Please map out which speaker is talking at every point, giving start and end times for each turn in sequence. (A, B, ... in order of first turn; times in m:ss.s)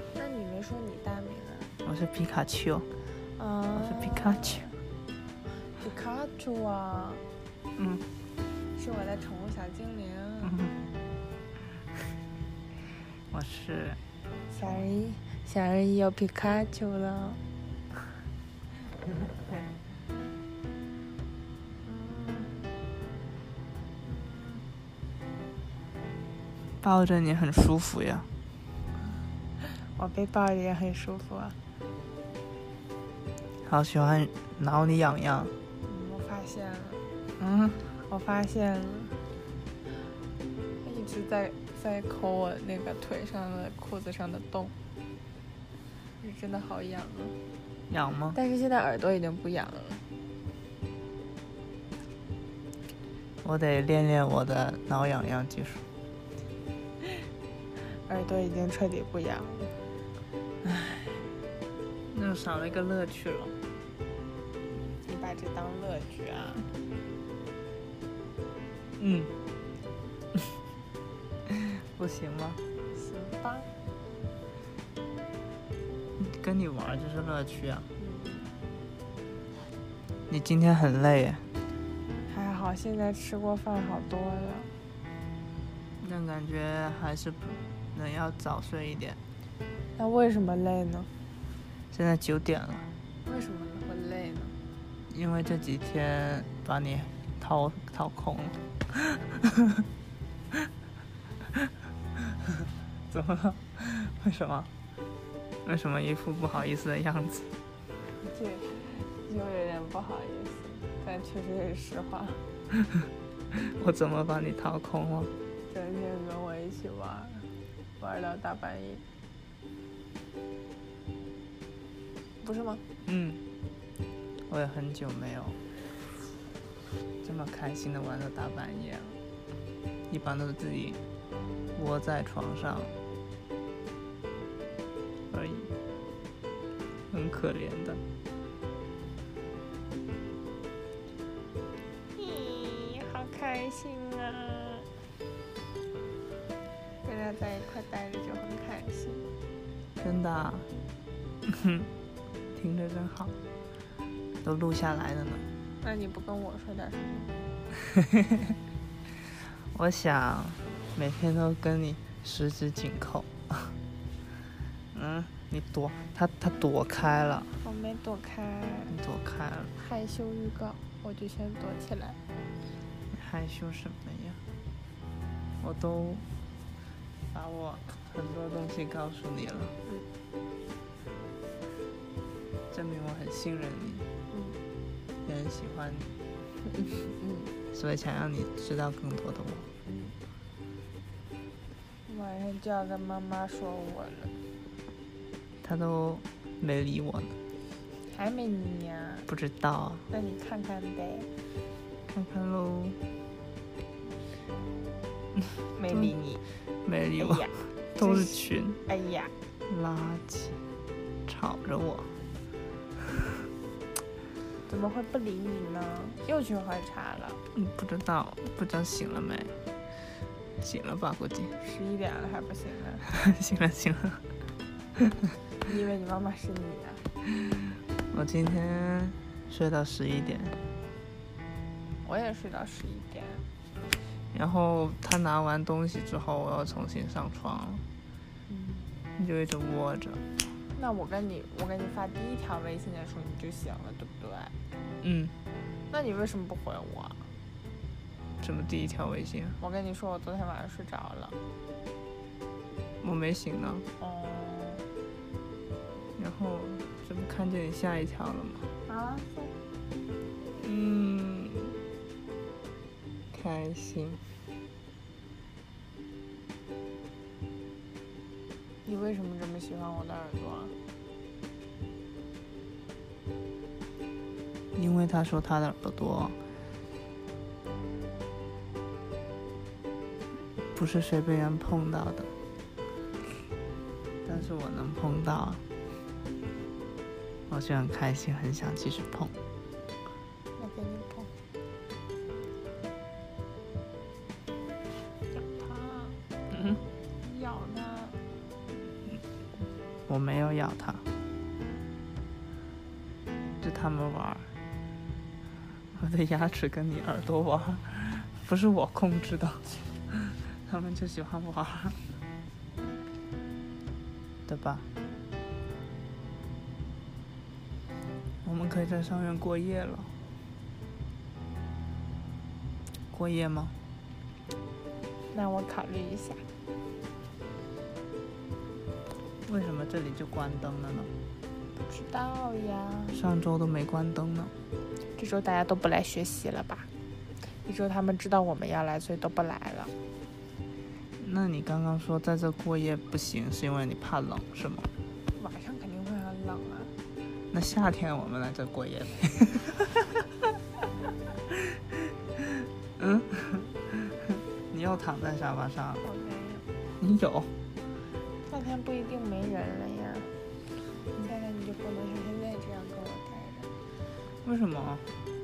0:00.2-0:01.7 A
0:01.8-0:02.9 B
0:03.4-0:04.8 A
0:03.8-0:04.7 B
0:05.7-0:07.2 A
0:07.8-0:08.0 B
0:08.8-0:10.7 A
0:13.3-0:14.0 B
0:14.5-0:17.4 A
0:21.8-0:22.7 A
0:24.1-0:24.6 A
0:26.8-0:28.3 B
0:29.6-0:31.6 A
0:33.6-0:35.5 B
0:35.8-0:37.0 A
0:37.4-0:37.9 B
0:38.1-0:39.2 A
0:40.8-0:44.7 A
0:46.2-0:47.4 A
0:47.9-0:48.4 B
0:48.3-0:50.0 A
0:53.4-0:55.8 B
0:57.8-0:59.8 A
1:00.6-1:01.2 B
1:02.1-1:03.6 B
1:05.0-1:06.7 A
1:09.0-1:09.3 B
1:11.5-1:12.6 B
1:12.9-1:13.7 A
1:16.2-1:17.9 B
1:18.0-1:18.5 A
1:20.3-1:21.4 B
1:22.3-1:24.7 A
1:26.0-1:29.2 B
1:30.0-1:31.1 A
1:31.9-1:32.9 B
1:33.2-1:34.6 A
1:35.1-1:39.8 B
1:42.6-1:44.7 B
1:45.6-1:47.5 B
1:48.2-1:52.4 A
1:53.5-1:55.3 B
1:55.7-1:59.0 A
2:02.4-2:02.8 A
2:03.0-2:03.4 B
2:04.5-2:05.6 B
2:07.2-2:09.2 B
2:10.1-2:11.0 B
2:11.8-2:12.9 B
2:15.3-2:15.7 B
2:17.1-2:18.0 B
2:22.2-2:24.9 A
2:27.0-2:29.3 A
2:30.0-2:30.7 B
2:31.5-2:31.9 B
2:32.5-2:33.4 B
2:34.4-2:35.5 B
2:35.8-2:37.4 A
2:39.7-2:43.7 B
2:44.9-2:47.6 B
2:47.6-2:49.0 A
2:48.9-2:49.7 B
2:49.8-2:52.2 A
2:53.1-2:54.4 B
2:55.6-2:56.2 B
2:57.3-2:59.7 B
3:02.7-3:04.1 B
3:04.3-3:04.6 A
3:05.2-3:06.1 B
3:06.7-3:07.5 A
3:07.7-3:09.7 B
3:09.9-3:10.2 A
3:12.1-3:14.4 A
3:15.6-3:17.4 B
3:18.0-3:19.3 A
3:19.3-3:20.1 B
3:20.1-3:21.3 A
3:22.1-3:23.0 B
3:25.7-3:26.4 A
3:26.8-3:28.8 B
3:27.2-3:29.3 A
3:29.7-3:30.6 B
3:31.3-3:32.1 B
3:34.7-3:37.4 A
3:37.5-3:39.6 B
3:40.6-3:41.5 B
3:41.6-3:43.0 A
3:43.0-3:44.2 B
3:45.6-3:47.1 A
3:48.1-3:50.6 B
3:52.0-3:53.4 A
3:54.3-3:57.8 B
3:58.5-3:58.9 A
3:59.2-4:00.2 B
4:00.7-4:04.6 A
4:05.0-4:05.3 B
4:05.9-4:07.3 A
4:08.4-4:09.6 B
4:09.6-4:11.4 A
4:13.0-4:13.9 B
4:14.0-4:14.8 A
4:16.2-4:18.7 B
4:18.9-4:19.5 A
4:20.5-4:21.8 B
4:23.3-4:24.2 B
4:28.8-4:30.8 A
4:34.8-4:36.4 B
4:40.7-4:42.3 B
4:44.2-4:45.6 B
4:47.5-4:49.4 B
4:50.6-4:51.3 A
4:55.3-4:56.2 A
4:57.2-4:58.2 A
5:00.1-5:01.1 B
5:03.6-5:04.5 B
5:05.9-5:12.0 B
5:14.5-5:14.9 B
5:18.4-5:20.1 B
5:23.1-5:23.8 B
5:25.3-5:26.4 A
5:29.4-5:31.1 B
5:31.9-5:33.2 A
5:33.1-5:34.5 B
5:35.2-5:36.9 A
5:37.6-5:39.9 A
5:41.2-5:44.9 B
5:45.4-5:46.9 A
5:47.5-5:50.1 B
5:53.0-5:56.0 B
5:56.0-5:56.7 A
5:57.0-5:57.5 B
5:58.5-6:00.4 A
6:01.2-6:03.7 A
6:04.4-6:05.1 B